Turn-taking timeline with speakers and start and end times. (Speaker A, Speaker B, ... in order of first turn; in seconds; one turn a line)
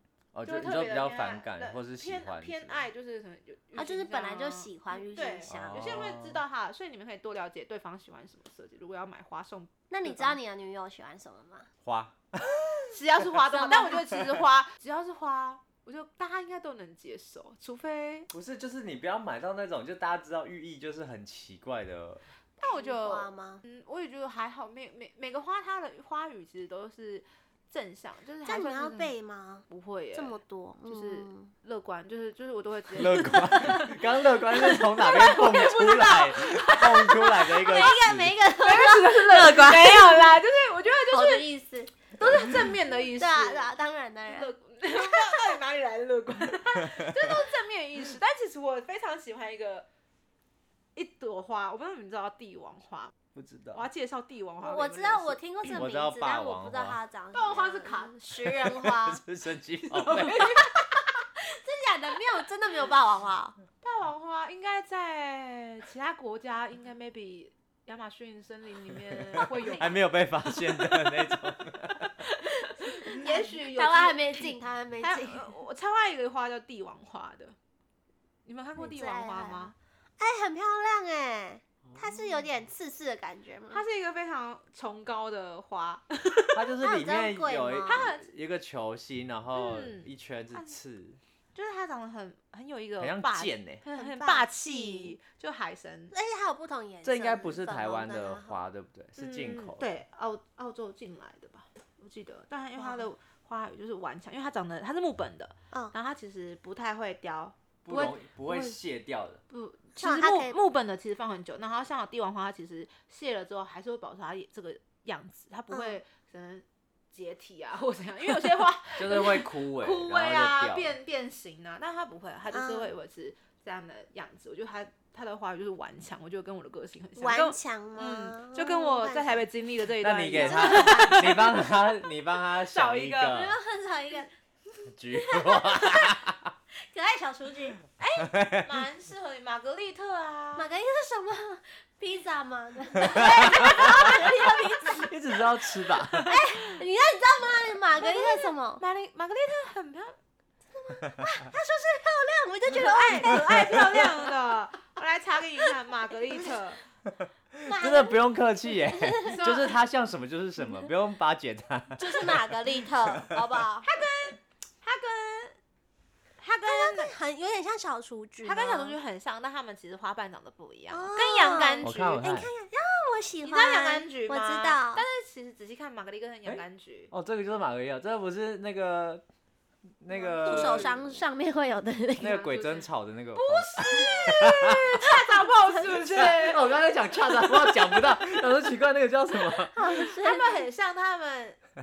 Speaker A: 0.3-2.9
Speaker B: 0.5-10.4
Speaker C: 3.8-6.0
Speaker A: 5.5-6.4
Speaker C: 9.9-11.7
Speaker A: 11.8-12.8
Speaker B: 12.9-18.3
Speaker C: 13.5-14.0
Speaker A: 18.3-22.2
Speaker B: 22.6-29.1
Speaker C: 22.6-23.6
Speaker C: 28.4-31.5
Speaker B: 29.7-33.9
Speaker A: 33.0-38.3
Speaker B: 34.7-37.9
Speaker C: 37.6-40.3
Speaker B: 38.6-41.5
Speaker C: 41.1-42.1
Speaker B: 42.1-43.7
Speaker C: 42.9-45.6
Speaker B: 44.3-49.9
Speaker B: 51.0-53.1
Speaker A: 53.4-53.8
Speaker B: 53.7-55.4
Speaker C: 54.6-59.2
Speaker A: 55.7-57.0
Speaker B: 57.3-58.6
Speaker A: 58.7-60.6
Speaker B: 60.0-60.7
Speaker C: 60.3-63.6
Speaker B: 63.8-71.1
Speaker A: 69.3-72.1
Speaker B: 72.0-77.6
Speaker C: 73.1-75.5
Speaker B: 78.5-79.7
Speaker C: 78.8-83.8
Speaker B: 83.7-86.7
Speaker A: 86.5-91.2
Speaker C: 86.8-88.1
Speaker B: 87.9-88.3
Speaker B: 89.5-90.8
Speaker B: 91.5-96.1
Speaker A: 93.0-93.8
Speaker C: 94.0-95.2
Speaker C: 96.1-98.6
Speaker A: 97.0-99.8
Speaker B: 99.2-108.1
Speaker C: 102.8-103.1
Speaker A: 107.8-109.4
Speaker B: 109.5-131.6
Speaker C: 110.0-110.6
Speaker C: 115.7-116.0
Speaker A: 119.0-121.0
Speaker C: 122.5-122.9
Speaker C: 127.2-129.4
Speaker A: 130.0-133.6
Speaker C: 130.3-131.6
Speaker B: 132.7-133.4
Speaker C: 133.3-136.2
Speaker A: 134.9-136.5
Speaker C: 136.8-137.8
Speaker B: 138.0-140.7
Speaker A: 138.2-138.7
Speaker C: 140.6-145.1
Speaker B: 143.1-145.1
Speaker A: 143.2-144.0
Speaker A: 145.0-146.4
Speaker C: 146.2-148.8
Speaker B: 148.0-150.2
Speaker C: 150.7-153.8
Speaker B: 152.7-156.8
Speaker A: 153.2-153.9
Speaker A: 157.1-163.4
Speaker C: 157.7-159.5
Speaker B: 159.3-159.7
Speaker C: 162.0-163.9
Speaker B: 163.8-165.6
Speaker B: 166.4-167.2
Speaker C: 166.7-169.0
Speaker B: 168.4-172.2
Speaker C: 170.9-175.0
Speaker A: 171.8-172.5
Speaker B: 173.4-177.1
Speaker A: 177.1-179.2
Speaker A: 180.0-181.1
Speaker B: 180.1-181.1
Speaker C: 180.4-182.4
Speaker A: 182.2-185.0
Speaker B: 182.2-186.7
Speaker A: 186.1-189.9
Speaker C: 189.8-190.6
Speaker B: 189.8-191.6